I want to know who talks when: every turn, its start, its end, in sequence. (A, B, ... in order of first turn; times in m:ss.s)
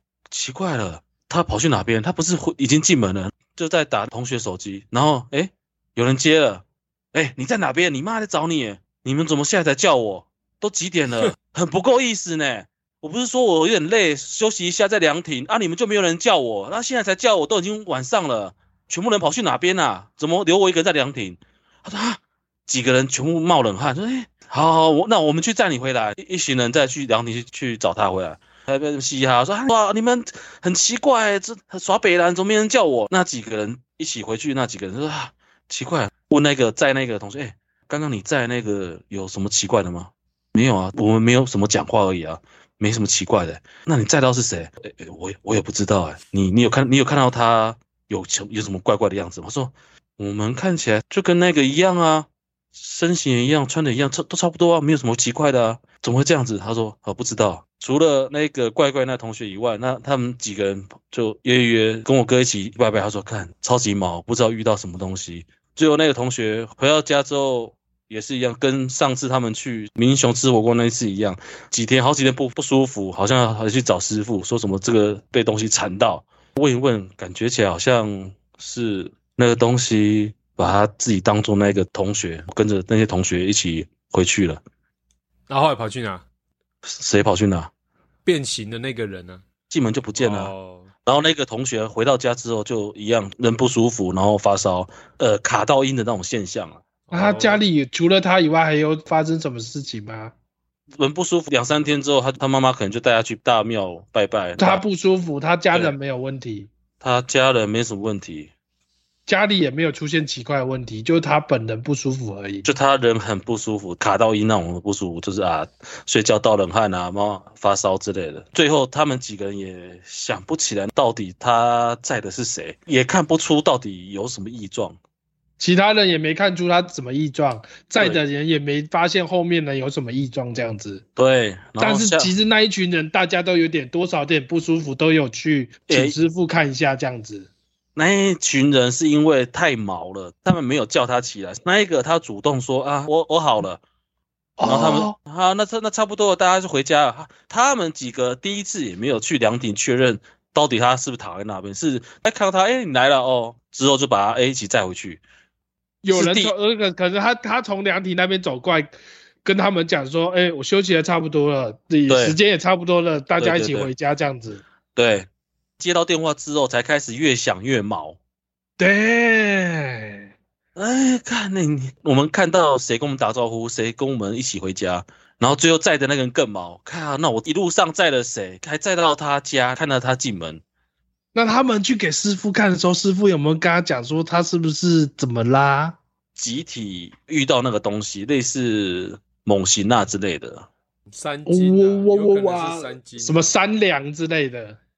0:00.3-1:24.6 A
1:25.5-1:26.2 B
1:26.8-1:27.7 A
1:28.2-1:29.4 B
1:29.7-1:30.5 A
1:30.2-1:30.9 B
1:31.0-1:36.8 A
1:37.1-1:37.6 B
1:37.1-1:40.3 C
1:41.0-1:44.8 A
1:44.6-1:46.7 C
1:47.0-1:48.5 A
1:49.2-1:52.6 C
1:52.6-2:05.0 A
2:05.6-2:11.0 C
2:08.0-2:08.2 A
2:11.2-2:12.3 A
2:11.8-2:17.5 C
2:15.9-2:16.2 A
2:18.0-2:23.8 A
2:24.6-2:25.1 C
2:24.6-2:35.2 A
2:36.0-2:44.6 C
2:36.1-2:36.5 A
2:42.1-2:42.4 A
2:43.4-2:43.9 A
2:44.9-2:45.3 A
2:45.8-2:48.2 A
2:48.8-2:50.2 C
2:50.8-3:00.6 A
3:01.3-3:06.0 C
3:06.3-3:10.7 A
3:11.1-3:13.5 B
3:11.5-3:14.8 C